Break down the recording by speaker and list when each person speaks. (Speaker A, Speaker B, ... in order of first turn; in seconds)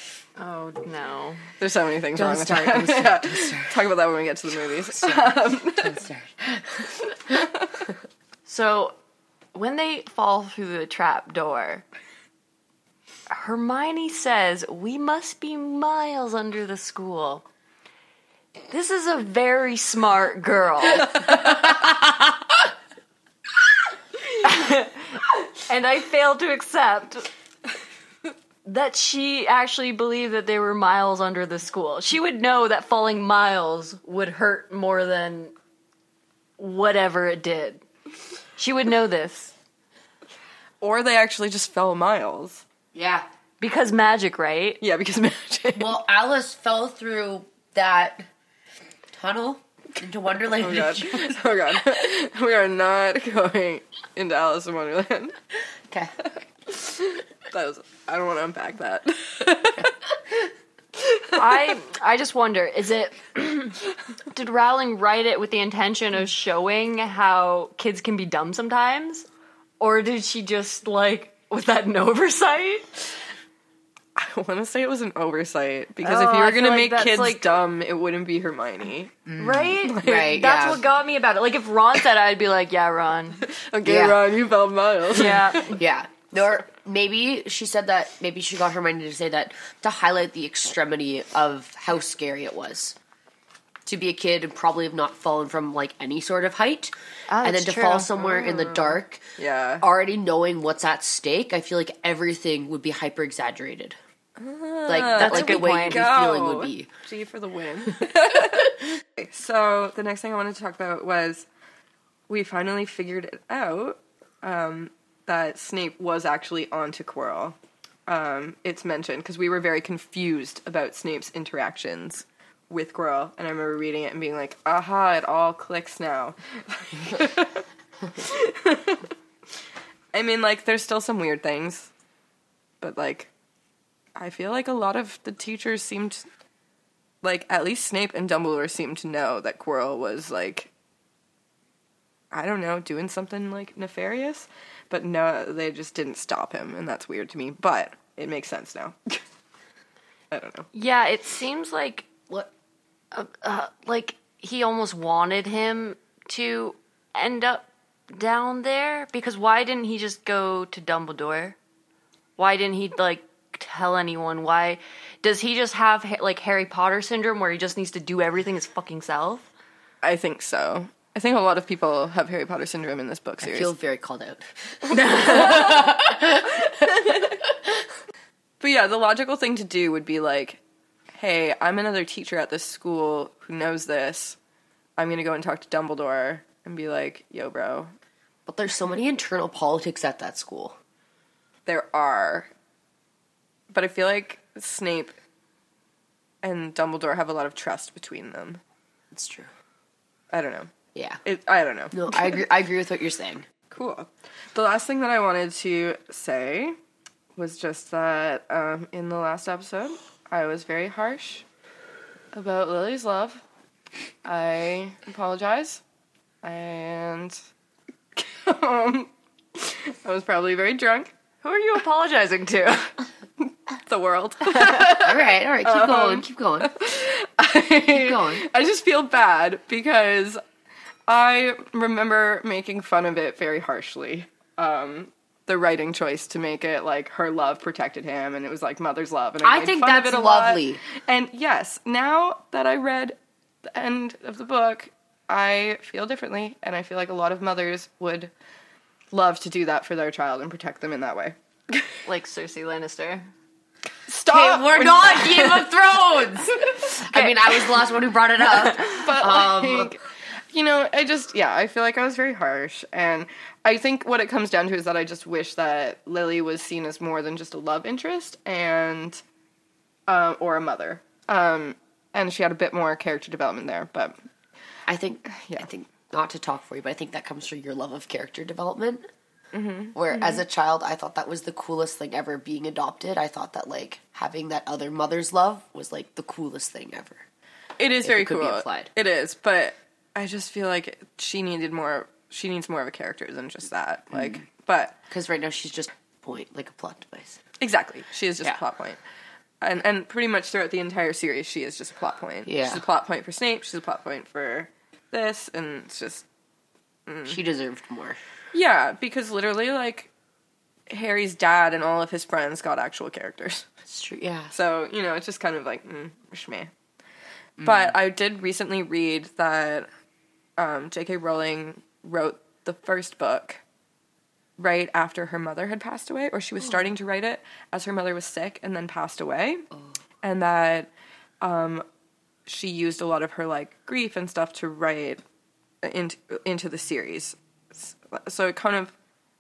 Speaker A: 0.4-1.4, 8.4-8.9, 9.5-11.8, 13.3-17.4, 18.7-21.4, 24.4-27.3, 28.6-35.5, 36.6-37.8, 38.6-39.5, 43.6-44.8, 61.3-69.3, 69.8-73.1, 76.0-77.5, 79.4-83.5, 85.1-85.8, 97.3-98.1, 105.1-106.1, 150.7-152.3, 153.1-161.6, 162.4-169.5, 174.9-175.8, 221.4-222.9, 252.1-253.3
Speaker B: 1.6-6.0, 7.1-7.9, 40.8-42.6, 44.8-45.9, 50.6-55.4, 56.7-59.9, 61.0-61.4, 74.2-79.2, 79.8-80.4, 83.4-85.7, 98.2-99.8, 104.4-111.5, 112.3-129.1, 130.1-131.9, 132.8-133.3, 134.2-136.2, 137.2-140.7, 142.3-149.2, 150.3-150.7, 170.0-173.7, 174.9-176.1, 176.6-177.4, 178.6-180.6, 181.1-184.4, 185.0-187.9, 191.7-192.5, 193.7-195.1, 196.4-198.6, 200.3-200.7, 201.2-202.4, 203.7-206.8, 207.3-211.4, 212.3-213.4, 214.2-215.8, 216.4-217.4, 218.2-221.1, 223.8-230.4, 231.1-243.2, 243.7-248.3, 249.1-251.9, 254.1-255.7, 258.5-260.0, 260.5-269.2, 270.1-274.2, 275.3-275.7, 279.5-280.4, 287.8-295.0, 297.6-299.0, 299.6-306.2, 307.1-307.4, 308.5-310.1, 310.9-313.7, 314.5-316.7, 317.6-319.9, 320.6-323.6, 324.6-329.6, 330.2-330.9, 331.4-331.8, 332.5-335.2, 335.8-338.9
Speaker C: 2.1-3.8, 4.9-7.4, 42.9-43.2, 45.7-48.3, 49.1-51.4, 79.3-80.8, 83.8-84.2, 85.7-93.0, 93.8-99.2, 99.8-104.0, 104.9-106.9, 173.4-177.7, 188.4-190.8, 199.1-199.5, 200.9-201.2, 201.9-203.5, 224.7-226.7, 227.9-228.4, 239.4-240.8, 254.3-259.9, 274.9-279.0, 279.9-287.2, 288.0-288.9, 295.1-297.4, 302.4-302.8, 307.3-308.2, 313.9-314.5